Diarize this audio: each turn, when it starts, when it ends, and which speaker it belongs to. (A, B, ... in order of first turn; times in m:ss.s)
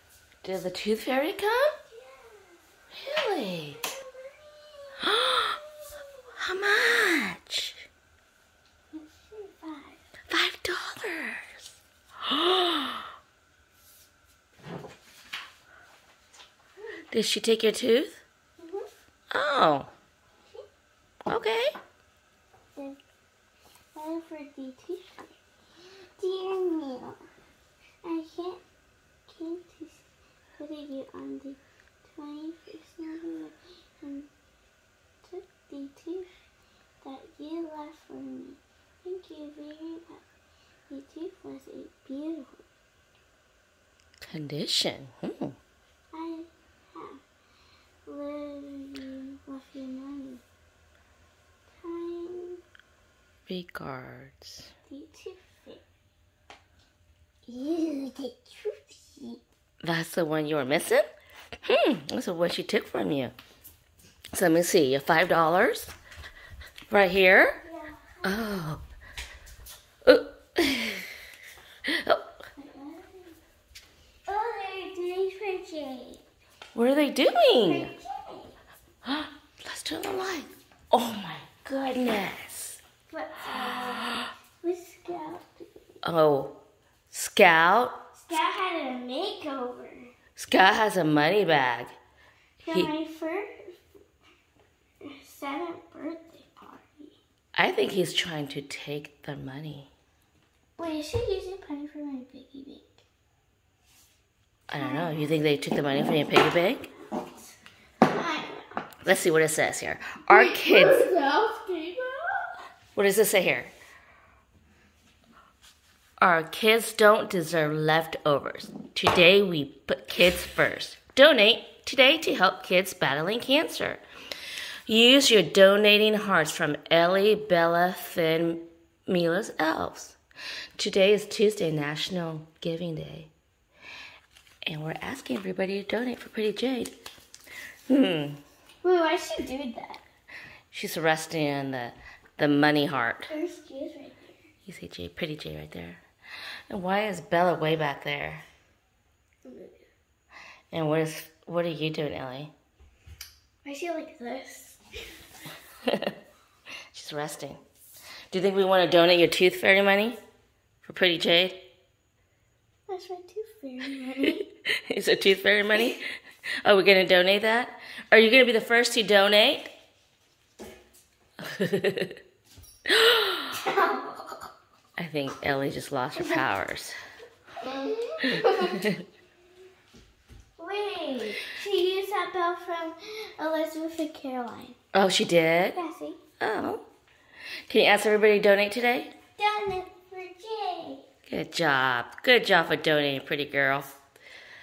0:00.4-0:01.7 A
0:01.9-0:02.6 B
0:02.9-0:03.8 A
0:03.6-0:06.2 B
0:05.0-0:05.6 A
0:06.4-0:07.8 A
0:08.9-0:10.0 B
0:10.3-0:11.6 A
0:12.2-0:13.0 A
0:17.1-0:18.2 A
0:18.6-0:18.9 B
0:19.3-0:19.9 A
0:21.3-0:21.7 A
0:23.9-0:25.3 B
0:26.2-0:27.2 B
0:28.0-0:28.6 B
0:29.3-0:30.0 B
0:30.6-0:34.3 B
0:35.2-0:36.3 B
0:37.0-0:40.2 B
0:40.9-0:42.6 B
0:44.2-0:45.6 A
0:46.1-0:47.2 B
0:48.0-0:50.4 B
0:51.8-0:52.6 B
0:53.5-0:54.7 A
0:54.9-0:55.8 B
0:57.5-0:59.4 B
0:59.8-1:01.1 A
1:01.6-1:03.3 A
1:04.3-1:05.9 A
1:06.9-1:07.6 A
1:07.6-1:08.4 B
1:08.2-1:08.8 A
1:10.0-1:11.1 A
1:11.8-1:12.2 A
1:12.6-1:13.4 B
1:14.3-1:16.2 B
1:16.7-1:17.9 A
1:17.6-1:18.5 B
1:19.0-1:22.8 A
1:23.1-1:25.9 B
1:26.0-1:26.5 A
1:27.1-1:28.0 A
1:28.1-1:30.1 B
1:30.4-1:32.0 A
1:32.6-1:34.0 B
1:32.6-1:32.9 A
1:35.0-1:37.2 B
1:37.6-1:39.9 A
1:40.8-1:43.0 B
1:44.7-1:46.9 A
1:44.7-1:45.7 B
1:46.9-1:48.8 B
1:49.0-1:51.1 A
1:50.3-1:52.5 B
1:52.9-1:53.7 A
1:56.2-2:04.0 A
2:04.9-2:10.2 A
2:10.8-2:13.3 A
2:14.7-2:17.0 A
2:17.9-2:18.4 A
2:18.8-2:20.0 B
2:20.7-2:23.3 A
2:23.3-2:24.4 B
2:24.7-2:26.0 A
2:26.7-2:28.4 A
2:29.4-2:29.9 B
2:30.7-2:32.5 A
2:33.6-2:34.8 B
2:35.8-2:36.1 A
2:36.9-2:37.6 A
2:38.3-2:40.2 A
2:40.8-2:41.6 A
2:42.9-2:44.4 B
2:44.7-2:46.0 A
2:46.6-2:49.7 A
2:51.4-2:52.2 A
2:52.9-2:53.5 A
2:53.5-2:54.5 B
2:55.0-2:57.0 A
2:56.1-2:56.4 B
2:57.6-2:58.9 B
2:58.3-2:59.0 A
3:00.6-3:04.8 B
3:04.9-3:05.8 A
3:05.7-3:06.2 B
3:06.4-3:06.8 A
3:07.7-3:09.1 A
3:09.4-3:11.0 B
3:11.3-3:14.0 A